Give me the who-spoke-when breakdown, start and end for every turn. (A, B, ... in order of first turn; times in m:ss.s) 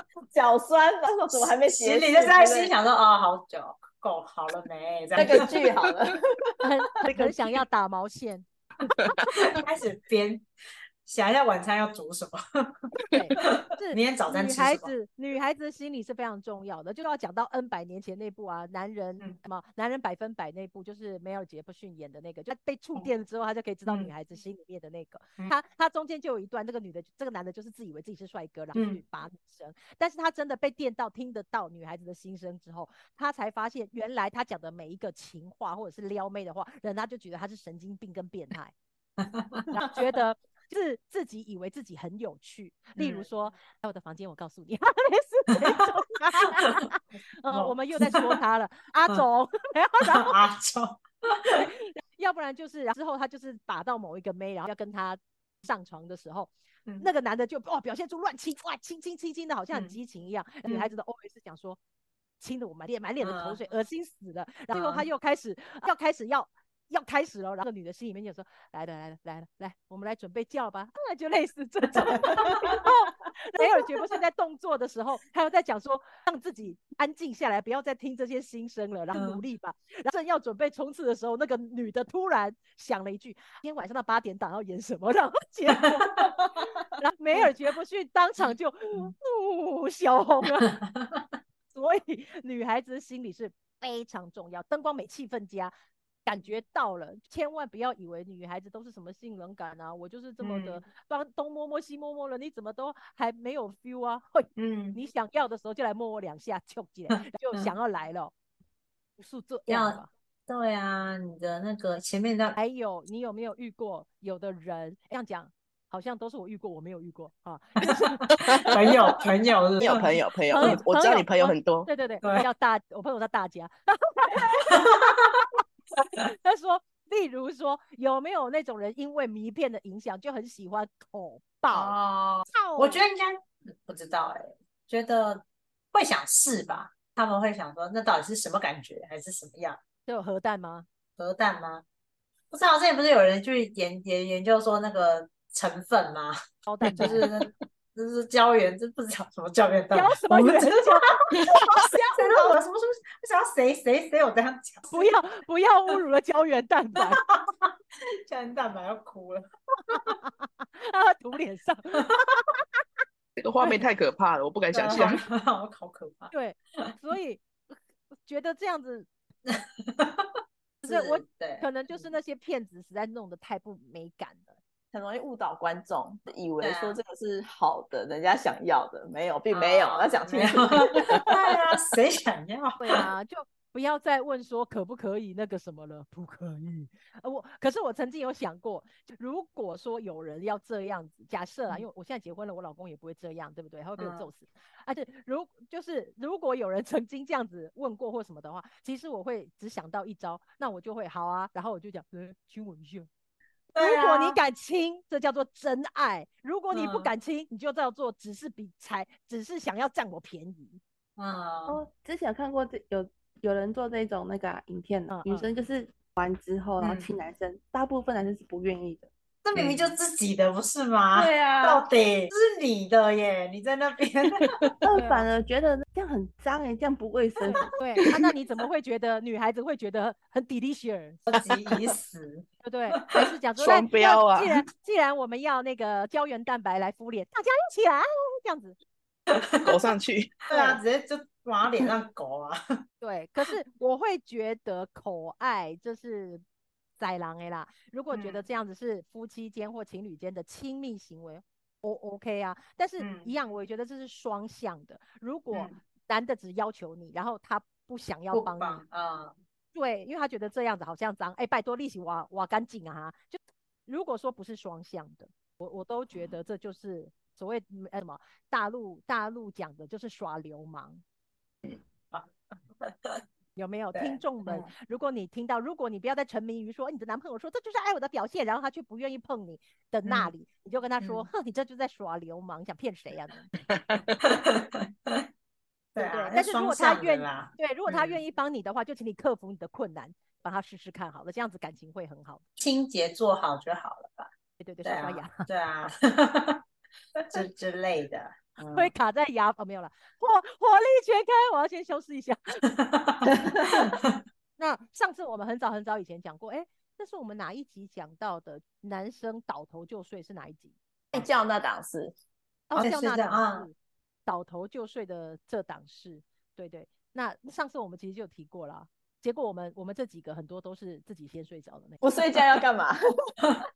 0:00.3-0:02.7 A
0:01.7-0:05.6 B
0:05.1-0:06.5 A
0:06.6-0:08.5 C
0:09.3-0:10.5 B
0:11.1-0:14.9 B
0:13.1-0:38.7 C
0:28.8-0:29.0 B
0:39.2-0:39.9 B
0:39.7-0:50.4 C
0:43.0-0:43.2 B
0:46.6-0:46.8 B
0:47.5-0:48.4 B
0:50.0-0:51.6 B
0:51.5-1:01.8 C
0:59.7-1:00.0 B
1:02.4-1:30.8 C
1:03.2-1:03.6 B
1:04.7-1:05.1 B
1:11.9-1:12.9 B
1:13.6-1:13.9 B
1:19.1-1:19.4 B
1:26.2-1:26.5 B
1:30.7-1:31.2 B
1:31.7-1:35.7 C
1:36.3-1:48.3 C
1:40.4-1:40.8 B
1:44.6-1:45.0 B
1:49.2-1:50.1 C
1:49.7-1:52.6 B
1:52.6-1:59.1 C
1:58.4-1:58.8 D
1:58.6-2:00.1 B
1:59.8-2:01.9 D
2:00.5-2:05.2 C
2:04.7-2:05.4 B
2:06.2-2:12.0 C
2:11.7-2:19.8 B
2:12.5-2:13.0 C
2:20.1-2:20.9 C
2:21.2-2:21.8 B
2:22.5-2:26.4 B
2:26.7-2:27.3 C
2:26.9-2:35.2 B
2:29.9-2:32.4 C
2:34.9-2:37.2 C
2:37.0-2:40.2 B
2:39.9-2:42.6 C
2:43.4-2:45.2 D
2:44.7-2:46.3 B
2:46.3-2:47.7 C
2:48.2-2:49.1 C
2:49.5-2:50.3 B
2:50.8-2:52.0 B
2:50.8-2:54.6 C
2:54.9-3:01.2 A
2:56.6-2:57.0 B
2:59.5-3:03.0 B
3:02.8-3:23.1 C
3:14.0-3:14.3 B
3:23.7-3:24.4 B
3:23.8-3:30.8 C
3:26.7-3:27.1 B
3:31.2-3:31.8 B
3:31.7-3:39.1 E
3:35.1-3:35.5 C
3:36.8-3:37.1 B
3:39.4-3:44.5 B
3:41.1-3:41.8 A
3:44.4-3:44.7 D
3:44.8-3:47.8 E
3:44.9-3:45.3 C
3:47.4-3:51.2 C
3:51.3-3:53.2 B
3:52.6-3:58.8 C
3:53.6-3:54.6 D
3:59.3-3:59.7 B
3:59.6-4:00.4 D
4:00.5-4:02.6 B
4:00.5-4:00.8 C
4:03.0-4:06.4 C
4:07.0-4:18.8 C
4:08.1-4:08.4 B
4:13.0-4:13.3 B
4:18.3-4:19.4 B
4:19.7-4:31.0 C
4:32.8-4:33.2 B
4:33.6-4:43.5 C
4:33.9-4:34.7 B
4:40.1-4:40.3 B
4:41.0-4:41.3 B
4:44.2-4:45.3 B
4:45.9-4:48.2 B
4:46.0-4:52.4 C
4:52.6-4:54.3 B
4:54.6-4:55.5 C
4:54.8-4:56.6 B
4:57.3-4:58.9 B
4:58.7-5:02.6 C
5:02.7-5:04.2 B
5:04.6-5:10.8 C
5:11.1-5:12.1 A
5:12.7-5:13.8 C
5:12.8-5:13.7 B
5:14.3-5:22.0 C
5:22.0-5:23.5 A